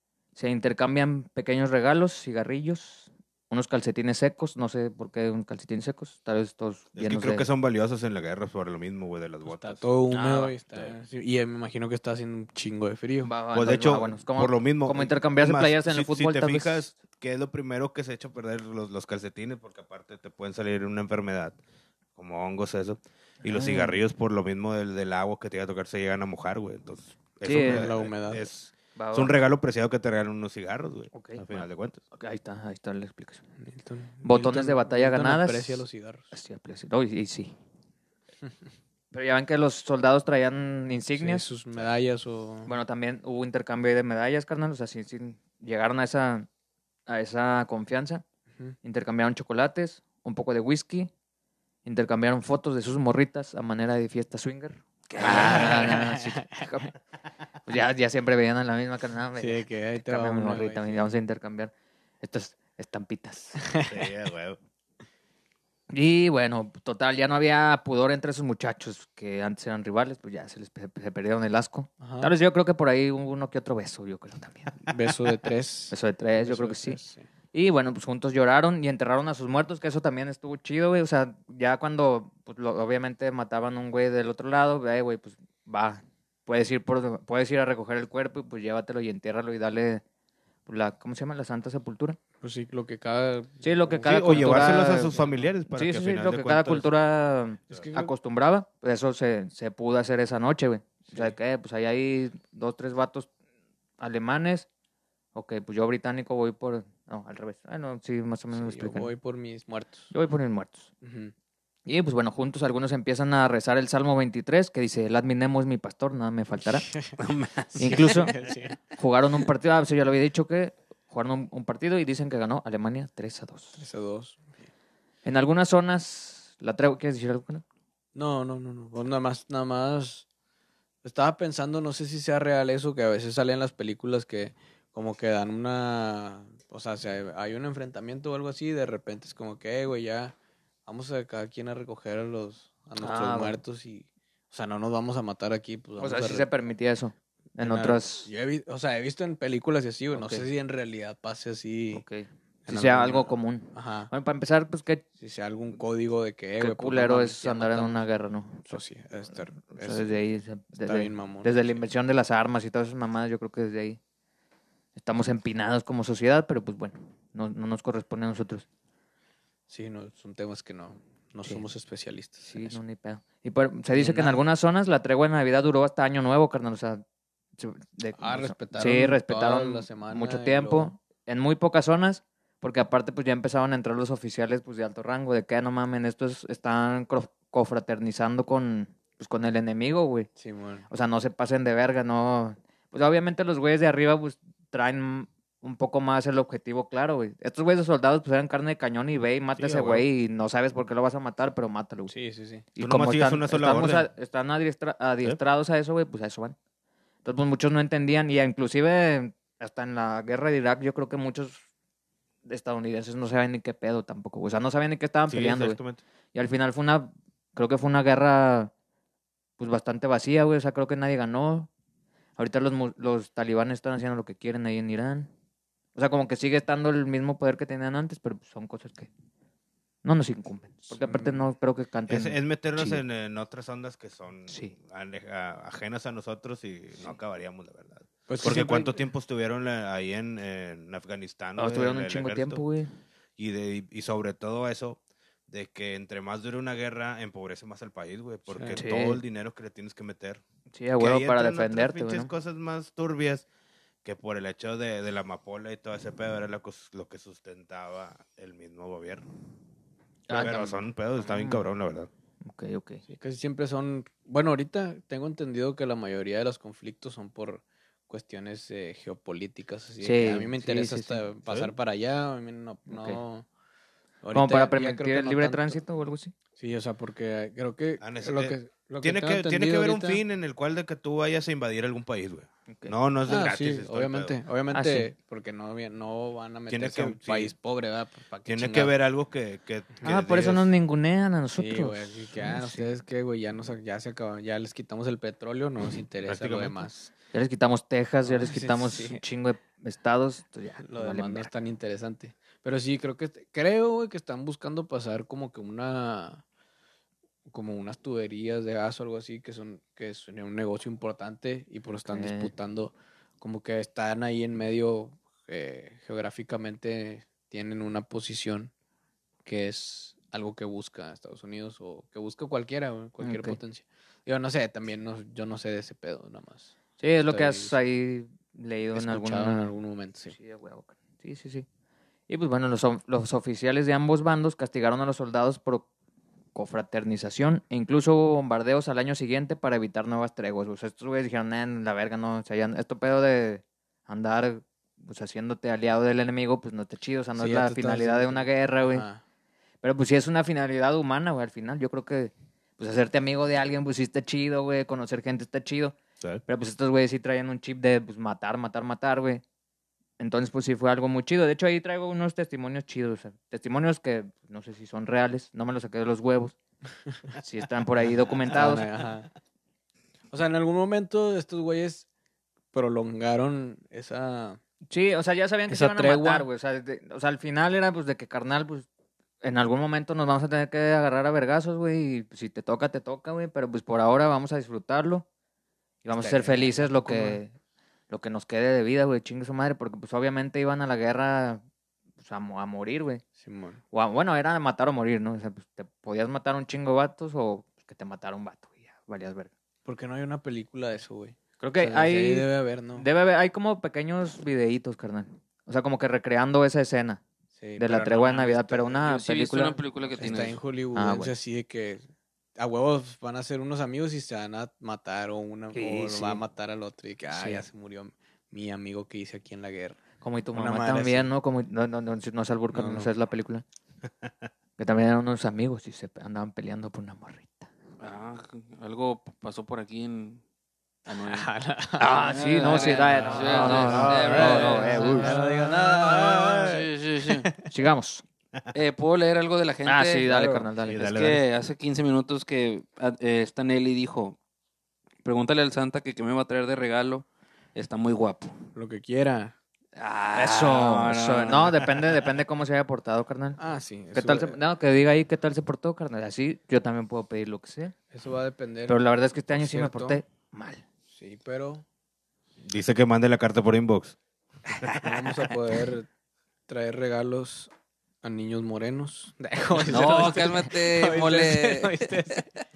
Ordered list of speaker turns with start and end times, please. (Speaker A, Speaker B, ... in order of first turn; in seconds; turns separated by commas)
Speaker A: 0.3-7.5, Speaker B: 7.0-9.8, Speaker C: 9.4-13.3, Speaker A: 10.1-10.5, Speaker A: 13.2-16.9, Speaker B: 13.5-21.6, Speaker B: 22.1-32.0, Speaker A: 23.4-24.0, Speaker A: 27.4-27.9, Speaker C: 27.6-28.5, Speaker A: 28.9-29.4, Speaker A: 31.1-33.4, Speaker C: 33.6-36.3, Speaker A: 34.2-37.5, Speaker A: 39.1-41.5, Speaker C: 41.2-42.7, Speaker A: 42.7-46.5, Speaker A: 47.1-48.2, Speaker A: 48.8-51.1, Speaker A: 51.8-56.9, Speaker D: 55.1-55.7, Speaker C: 55.2-56.6, Speaker A: 57.6-63.6, Speaker C: 59.4-61.1, Speaker C: 63.6-64.0, Speaker B: 63.9-64.6, Speaker A: 65.9-74.9, Speaker C: 72.0-72.3, Speaker C: 74.8-77.2, Speaker A: 75.9-77.0, Speaker A: 77.5-90.0, Speaker A: 90.7-92.2, Speaker C: 92.4-95.5, Speaker A: 93.6-103.3, Speaker B: 94.0-96.9, Speaker C: 97.7-98.1, Speaker A: 104.0-104.7, Speaker A: 105.3-109.1, Speaker C: 108.5-110.1, Speaker A: 110.1-110.9, Speaker C: 111.0-111.3, Speaker A: 111.8-116.9, Speaker C: 116.8-117.1, Speaker D: 117.2-118.2, Speaker C: 117.7-118.8, Speaker A: 117.8-118.3, Speaker A: 119.0-123.8, Speaker C: 123.8-124.5, Speaker A: 125.2-127.6, Speaker C: 128.1-130.2, Speaker C: 131.0-140.3, Speaker C: 140.8-146.5, Speaker A: 143.0-143.6, Speaker A: 146.0-148.3, Speaker C: 147.6-152.0, Speaker A: 150.1-150.5, Speaker A: 151.9-155.0, Speaker C: 152.7-154.1, Speaker C: 155.2-158.0, Speaker A: 156.6-158.8, Speaker C: 158.7-160.2, Speaker A: 159.7-164.0, Speaker C: 160.7-161.8, Speaker A: 164.9-168.7, Speaker C: 169.7-172.8, Speaker A: 172.4-177.0, Speaker C: 173.9-174.4, Speaker A: 177.6-190.3, Speaker C: 178.2-180.9, Speaker C: 190.3-190.8, Speaker A: 190.9-202.1, Speaker B: 199.6-200.0, Speaker C: 202.1-202.6, Speaker A: 202.7-206.6, Speaker B: 202.8-204.1, Speaker A: 207.2-211.6, Speaker A: 212.4-215.8, Speaker B: 215.3-216.0, Speaker A: 216.3-218.7, Speaker A: 219.6-221.7, Speaker A: 222.4-225.3, Speaker A: 225.9-229.1, Speaker A: 230.0-233.0, Speaker C: 230.9-231.4, Speaker B: 232.1-242.6, Speaker A: 234.5-234.8, Speaker C: 238.3-239.0, Speaker A: 241.6-242.9, Speaker B: 243.4-250.4, Speaker C: 248.5-248.8, Speaker A: 248.7-249.2, Speaker A: 250.7-252.3, Speaker B: 251.0-253.5, Speaker B: 254.0-259.2, Speaker A: 260.3-261.6, Speaker B: 260.3-262.1, Speaker A: 262.4-263.0, Speaker C: 263.1-273.4, Speaker A: 270.0-271.2, Speaker B: 271.5-271.7, Speaker A: 272.9-273.2, Speaker C: 274.2-275.8, Speaker A: 274.3-276.3, Speaker C: 276.6-280.2, Speaker B: 278.0-284.4, Speaker A: 282.7-282.9, Speaker C: 283.2-288.9, Speaker A: 284.7-285.1, Speaker B: 286.7-287.5, Speaker B: 288.4-290.7, Speaker A: 290.0-292.9, Speaker C: 291.6-297.1, Speaker B: 296.2-296.9, Speaker A: 297.3-301.5, Speaker C: 298.2-299.2, Speaker C: 300.8-306.4, Speaker C: 307.5-318.7, Speaker A: 312.1-312.5, Speaker C: 319.4-326.7, Speaker A: 323.2-323.6, Speaker A: 327.0-329.7, Speaker C: 327.3-327.8, Speaker C: 328.9-330.4, Speaker A: 330.3-331.6, Speaker A: 332.3-335.9, Speaker A: 336.5-349.1, Speaker C: 347.4-349.2, Speaker A: 349.8-359.4, Speaker A: 360.2-366.6, Speaker A: 367.4-368.9, Speaker C: 368.5-369.3, Speaker C: 370.3-372.1, Speaker C: 372.7-374.6, Speaker A: 374.9-378.9, Speaker C: 375.7-376.5, Speaker A: 379.4-385.2, Speaker A: 386.0-387.5, Speaker C: 386.1-387.4, Speaker A: 388.1-391.6, Speaker A: 392.2-393.2, Speaker C: 393.4-393.8, Speaker A: 393.9-399.5, Speaker C: 399.8-403.1, Speaker A: 401.6-407.2, Speaker C: 407.6-409.0, Speaker A: 407.8-409.8, Speaker D: 409.1-410.6, Speaker C: 410.2-412.0, Speaker A: 410.9-411.3, Speaker C: 412.6-420.0, Speaker A: 415.7-416.4, Speaker A: 417.3-417.6, Speaker A: 420.2-423.6, Speaker C: 420.5-421.3, Speaker C: 422.7-423.1, Speaker A: 424.8-427.7, Speaker D: 428.0-430.4, Speaker D: 431.1-431.5, Speaker C: 431.2-437.7, Speaker A: 432.0-435.3, Speaker D: 432.2-435.5, Speaker B: 433.5-436.8, Speaker D: 436.6-437.5, Speaker A: 437.7-438.2, Speaker D: 438.7-444.4, Speaker A: 439.8-441.2, Speaker B: 440.8-441.4, Speaker D: 445.2-448.5, Speaker C: 448.7-449.5, Speaker D: 449.9-452.1, Speaker A: 450.3-453.6, Speaker C: 453.6-454.6, Speaker A: 454.1-457.9, Speaker C: 458.1-459.0, Speaker A: 458.9-460.8, Speaker C: 459.5-460.2, Speaker C: 461.1-461.8, Speaker B: 462.6-465.0, Speaker C: 464.9-466.1, Speaker C: 466.7-467.7, Speaker C: 468.2-472.4, Speaker D: 469.8-472.4